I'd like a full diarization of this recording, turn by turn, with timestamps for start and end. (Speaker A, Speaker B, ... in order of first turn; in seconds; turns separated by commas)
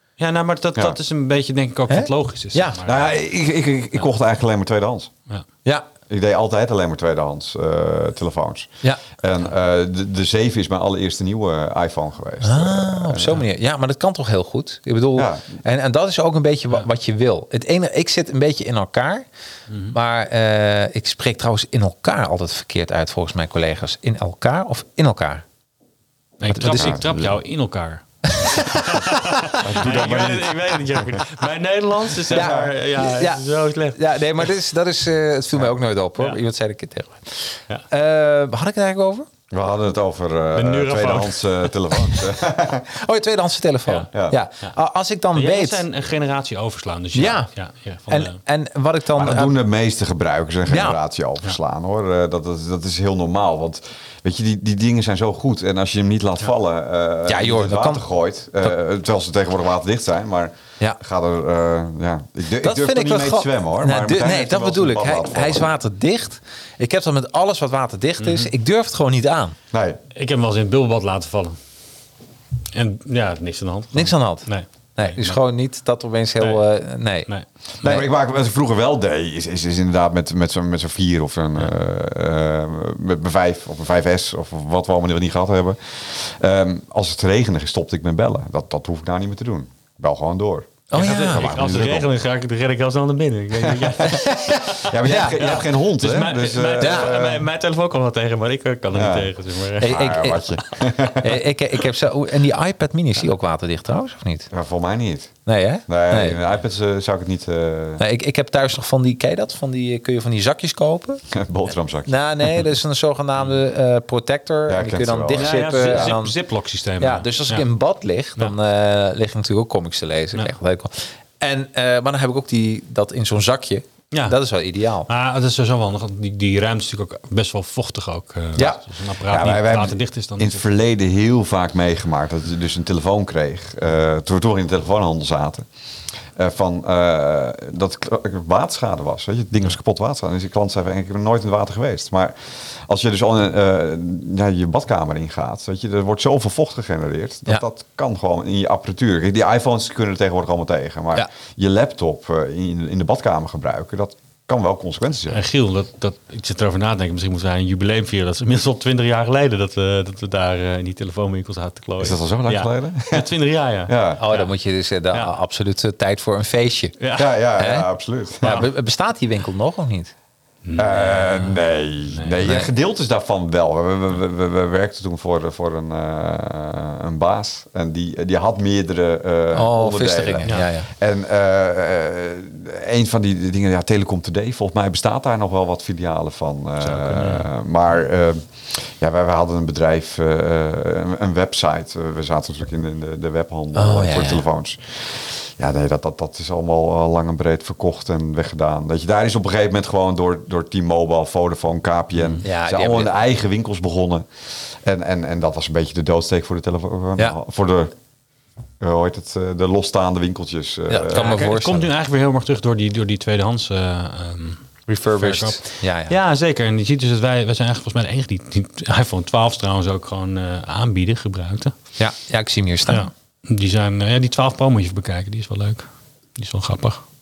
Speaker A: 0.2-3.1, Speaker B: 1.9-2.8, Speaker C: 2.8-5.1, Speaker C: 6.1-13.4, Speaker B: 12.4-19.3, Speaker C: 15.2-15.4, Speaker A: 19.7-19.9, Speaker B: 19.9-25.4, Speaker A: 26.4-34.5, Speaker B: 26.5-27.0, Speaker C: 26.7-27.4, Speaker B: 28.3-29.6, Speaker C: 29.6-31.2, Speaker B: 32.3-39.3, Speaker C: 32.3-32.7, Speaker C: 39.5-42.9, Speaker A: 40.6-41.7, Speaker B: 42.9-45.8, Speaker C: 44.1-44.4, Speaker A: 45.4-48.4, Speaker B: 47.1-47.5, Speaker B: 48.1-49.5, Speaker C: 49.2-65.7, Speaker B: 50.7-51.0, Speaker B: 57.3-58.0, Speaker B: 62.6-69.6, Speaker A: 68.2-68.5, Speaker C: 69.7-70.0, Speaker A: 70.1-71.6, Speaker A: 72.7-75.4, Speaker B: 73.9-77.3, Speaker A: 76.4-76.7, Speaker C: 77.8-92.1, Speaker B: 90.9-91.5, Speaker A: 90.9-100.0, Speaker C: 93.6-94.1, Speaker B: 94.0-95.4, Speaker C: 94.7-97.5, Speaker B: 96.8-97.1, Speaker C: 98.9-99.3, Speaker B: 99.8-100.6, Speaker C: 99.8-101.4, Speaker B: 101.2-104.5, Speaker C: 104.5-105.3, Speaker B: 105.5-106.4, Speaker C: 105.9-108.0, Speaker B: 108.0-111.2, Speaker C: 111.3-112.1, Speaker B: 112.1-116.4, Speaker C: 114.7-116.2, Speaker A: 115.3-117.7, Speaker B: 117.0-125.1, Speaker A: 124.1-124.4, Speaker A: 125.1-130.6, Speaker B: 128.6-128.8, Speaker C: 129.3-135.7, Speaker C: 136.4-142.3, Speaker C: 142.9-155.4, Speaker A: 155.3-164.5, Speaker C: 162.0-163.3, Speaker C: 163.9-164.2, Speaker B: 164.2-167.0, Speaker A: 167.0-167.4, Speaker C: 167.1-168.7, Speaker B: 167.6-167.9, Speaker B: 168.4-170.1, Speaker A: 168.4-168.7, Speaker A: 170.7-172.6, Speaker C: 170.8-204.3, Speaker B: 172.4-172.7, Speaker B: 179.5-180.9, Speaker A: 186.8-187.4, Speaker B: 193.8-194.4, Speaker B: 202.4-203.1, Speaker C: 204.8-207.9, Speaker C: 208.8-211.4, Speaker B: 210.9-211.9, Speaker A: 211.1-221.7, Speaker B: 214.9-216.2, Speaker B: 222.0-223.1, Speaker A: 222.9-227.0